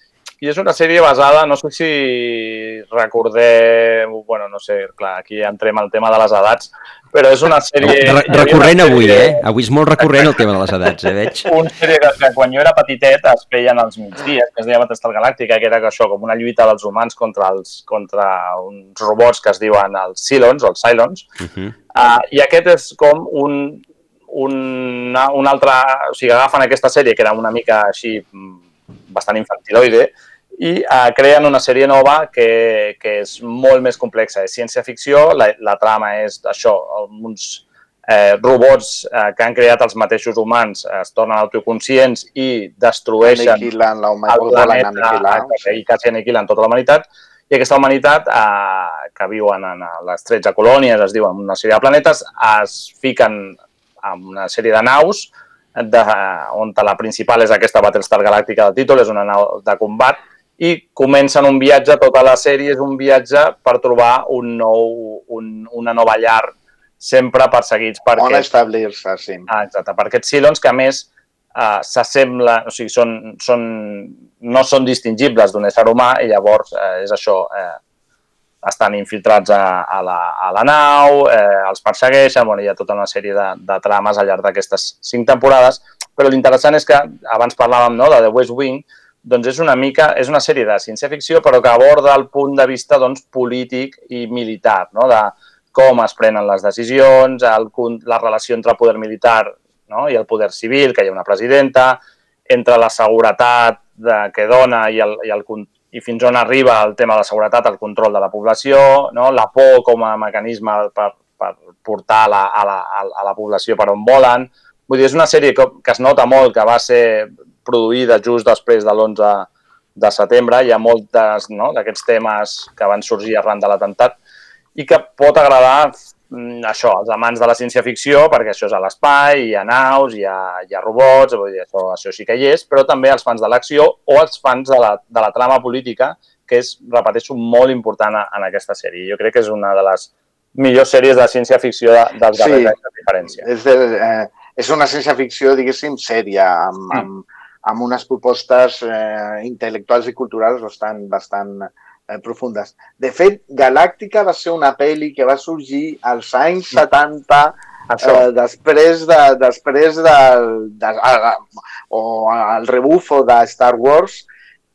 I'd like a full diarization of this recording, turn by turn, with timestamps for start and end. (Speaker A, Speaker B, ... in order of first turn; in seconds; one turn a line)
Speaker A: 0.4-9.4
Speaker B: 7.8-11.5
Speaker A: 11.4-21.2
Speaker B: 21.4-21.8
Speaker A: 21.9-43.7
Speaker C: 43.2-45.8
Speaker A: 44.3-68.5
Speaker C: 68.2-69.5
Speaker A: 69.5-77.8
Speaker A: 78.6-124.2
Speaker A: 124.8-143.4
Speaker C: 142.4-142.7
Speaker C: 143.4-164.2
Speaker A: 157.9-158.3